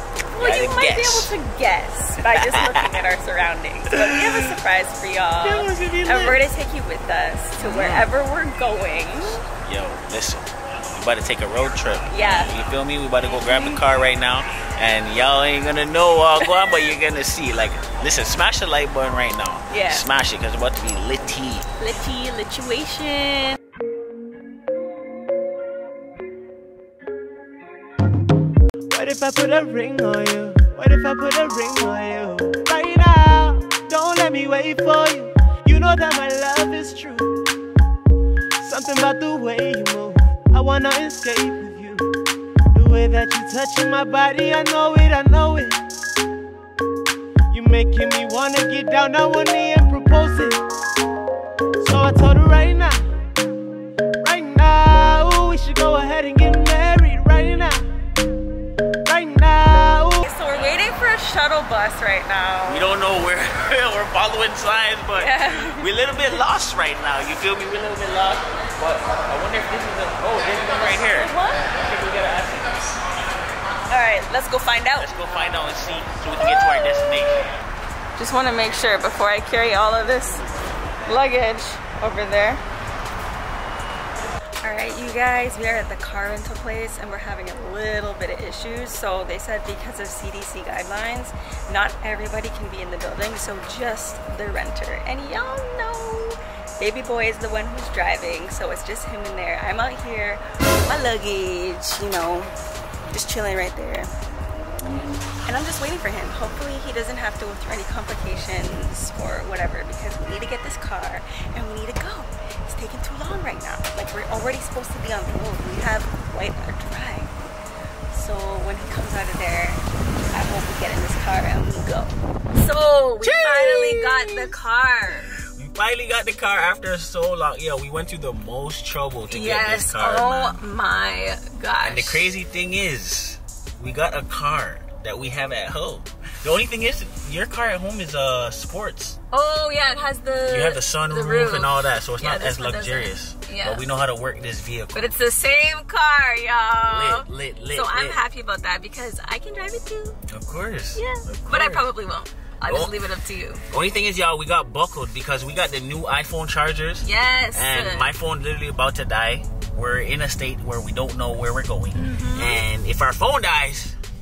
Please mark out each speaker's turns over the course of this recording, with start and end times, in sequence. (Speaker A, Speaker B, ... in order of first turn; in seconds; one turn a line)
Speaker A: 0.3-9.4
Speaker B: 0.4-1.4
Speaker B: 2.2-3.0
Speaker B: 3.9-4.5
Speaker B: 5.4-6.4
Speaker B: 7.6-8.1
Speaker B: 9.6-21.7
Speaker A: 12.1-12.5
Speaker A: 13.3-13.8
Speaker A: 19.7-20.1
Speaker A: 21.8-23.6
Speaker C: 28.9-37.3
Speaker C: 38.6-42.1
Speaker C: 42.7-45.8
Speaker C: 47.5-50.6
Speaker C: 51.8-53.1
Speaker C: 54.2-57.9
Speaker C: 59.0-60.3
Speaker A: 60.2-62.9
Speaker B: 62.7-73.0
Speaker A: 65.2-65.8
Speaker A: 71.1-71.7
Speaker A: 73.9-75.1
Speaker B: 75.0-77.7
Speaker A: 78.2-80.4
Speaker A: 81.1-82.6
Speaker A: 84.6-102.5
Speaker A: 103.1-104.1
Speaker A: 105.5-117.3
Speaker A: 118.1-125.3
Speaker B: 123.2-124.5
Speaker B: 125.4-130.7
Speaker A: 129.3-132.3
Speaker B: 131.8-139.2
Speaker A: 139.3-143.8
Speaker B: 140.5-145.2
Speaker A: 144.9-150.2
Speaker B: 146.9-148.2
Speaker B: 150.3-151.9
Speaker A: 150.9-153.6
Speaker B: 152.7-152.9
Speaker B: 153.7-164.0
Speaker A: 157.0-158.1
Speaker A: 161.9-162.6